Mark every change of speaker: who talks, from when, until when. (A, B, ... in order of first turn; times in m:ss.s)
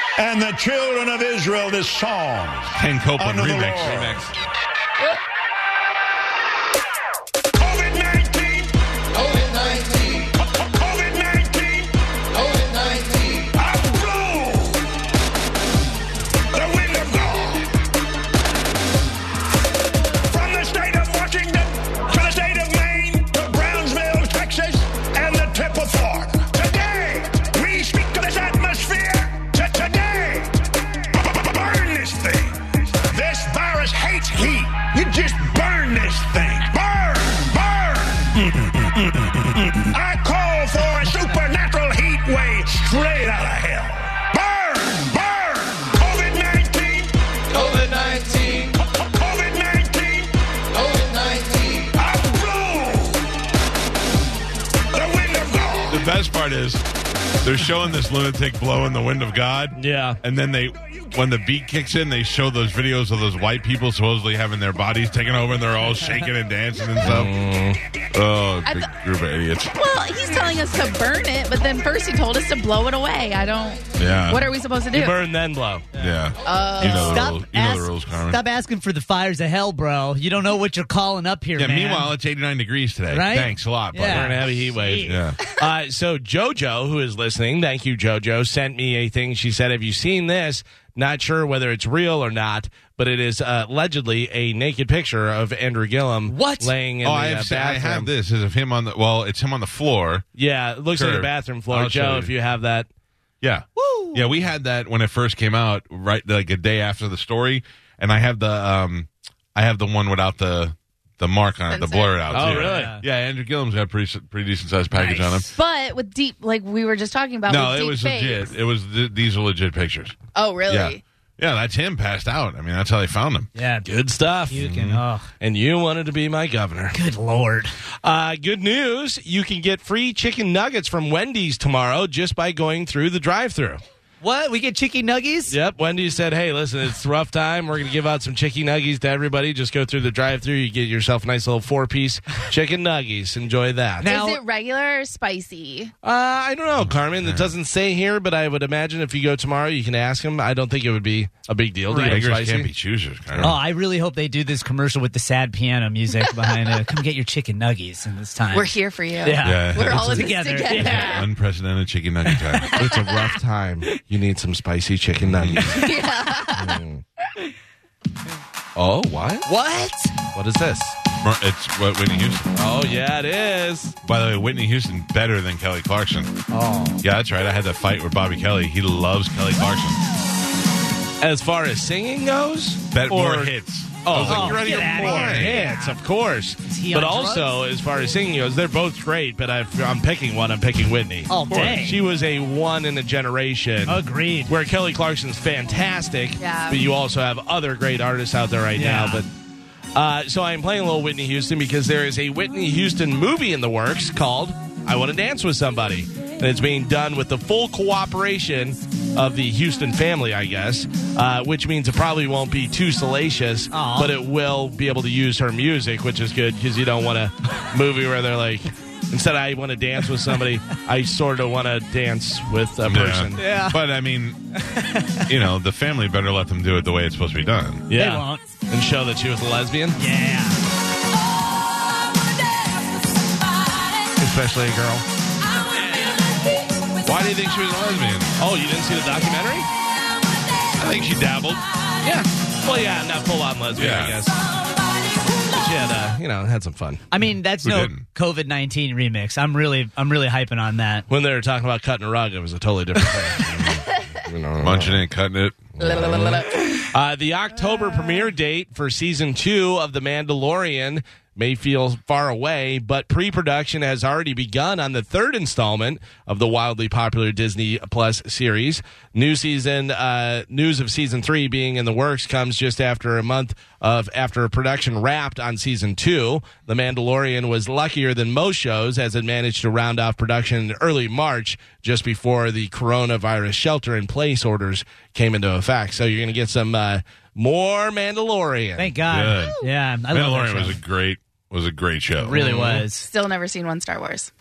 0:00.2-0:04.2 A
0:02.7-0:04.2 B
0:07.6-0:14.8 A
0:16.5-0:17.7 A
0:20.3-0:30.6 A
0:31.1-0:38.6 A
0:39.9-0:47.6 A
0:41.1-0:41.4 C
0:47.5-0:48.8 D
0:48.8-0:53.2 A
0:54.9-0:56.1 A
0:55.9-0:56.8 B
0:57.4-1:07.3 B
0:59.8-1:00.2 D
1:07.0-1:07.8 D
1:08.1-1:09.7 B
1:08.6-1:08.9 E
1:09.7-1:15.2 E
1:14.0-1:14.4 B
1:14.9-1:15.8 D
1:16.0-1:18.4 B
1:16.4-1:17.2 E
1:16.9-1:22.1 C
1:21.6-1:24.4 B
1:23.1-1:25.2 C
1:24.1-1:38.1 D
1:25.0-1:25.4 B
1:36.3-1:36.7 C
1:37.0-1:40.2 B
1:40.4-1:42.9 D
1:40.9-1:42.3 B
1:43.4-1:55.5 B
1:43.8-1:44.3 C
1:51.7-1:52.4 E
1:52.3-1:53.0 D
1:52.3-1:53.0 C
1:54.9-1:55.5 C
1:55.5-1:58.5 E
1:57.5-2:00.2 B
2:00.4-2:01.0 E
2:00.7-2:03.5 B
2:03.5-2:03.9 C
2:03.8-2:04.6 D
2:04.5-2:05.3 C
2:04.5-2:05.0 B
2:05.4-2:07.0 D
2:06.9-2:07.8 C
2:08.0-2:13.8 D
2:14.2-2:15.6 C
2:15.5-2:24.1 D
2:24.0-2:24.4 C
2:24.0-2:25.9 E
2:26.0-2:32.7 D
2:26.8-2:27.5 B
2:31.9-2:32.3 C
2:31.9-2:33.6 B
2:33.4-2:38.7 C
2:38.5-2:41.2 E
2:39.2-2:41.2 C
2:39.4-2:42.8 B
2:42.3-2:42.8 C
2:42.7-2:47.0 D
2:45.2-2:45.8 B
2:45.7-2:46.8 E
2:48.8-2:49.5 D
2:49.4-2:50.1 C
2:50.3-2:51.0 D
2:51.2-2:52.5 B
2:52.5-2:54.0 D
2:54.0-2:56.4 B
2:56.5-2:57.0 C
2:57.0-3:00.0 B
3:01.2-3:19.3 D
3:02.9-3:05.6 B
3:04.1-3:06.0 C
3:06.6-3:07.5 C
3:11.3-3:12.0 C
3:13.8-3:14.5 C
3:16.4-3:16.8 E
3:18.8-3:19.2 C
3:19.9-3:43.4 D
3:33.7-3:34.1 C
3:42.8-3:44.4 B
3:43.4-3:43.8 C
3:44.6-3:45.3 C
3:45.3-3:47.9 B
3:47.9-3:50.0 D
3:47.9-3:48.5 C
3:50.0-3:50.6 C
3:54.2-3:55.0 D
3:57.0-3:58.3 B
3:58.4-3:59.7 D
4:00.8-4:01.6 B
4:02.0-4:04.4 D
4:03.8-4:04.2 B
4:05.5-4:07.0 D
4:07.1-4:11.0 C
4:07.6-4:08.1 B
4:11.1-4:15.0 D
4:13.5-4:13.8 B
4:14.6-4:16.0 B
4:15.8-4:48.9 D
4:15.8-4:16.8 E
4:48.8-4:50.8 C
4:49.1-4:49.6 B
4:50.1-4:52.5 B
4:52.2-4:53.1 C
4:52.3-4:52.8 D
4:53.0-4:54.3 E